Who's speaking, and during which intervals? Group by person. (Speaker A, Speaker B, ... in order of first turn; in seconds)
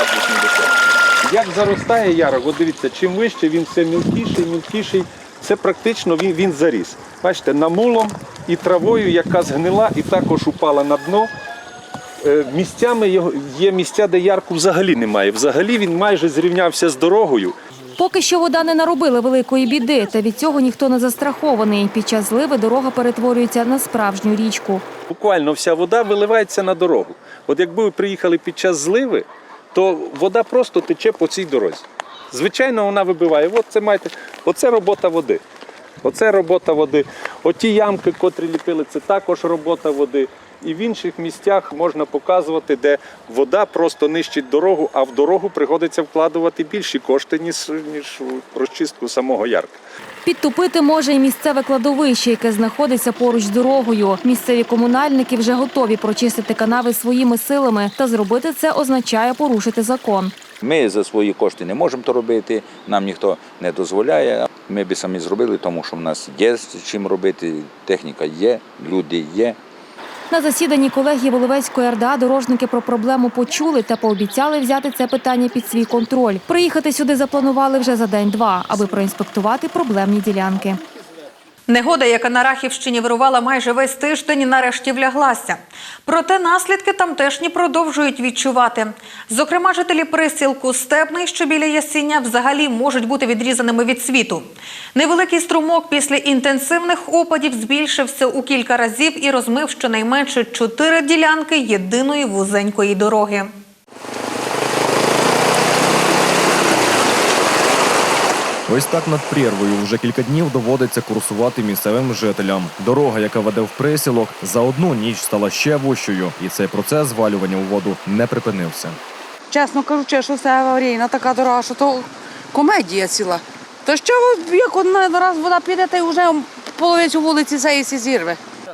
Speaker A: 2.7-3.4, 4.0-4.8, 5.5-7.5, 8.5-11.2, 12.3-17.5, 25.1-29.2, 29.8-31.8, 32.4-35.2, 37.5-49.7
Speaker B: 18.0-24.9, 50.2-60.3, 70.3-80.8
Speaker C: 60.6-69.6
Speaker D: 81.7-103.5
Speaker E: 108.7-119.0
Speaker F: 119.5-128.4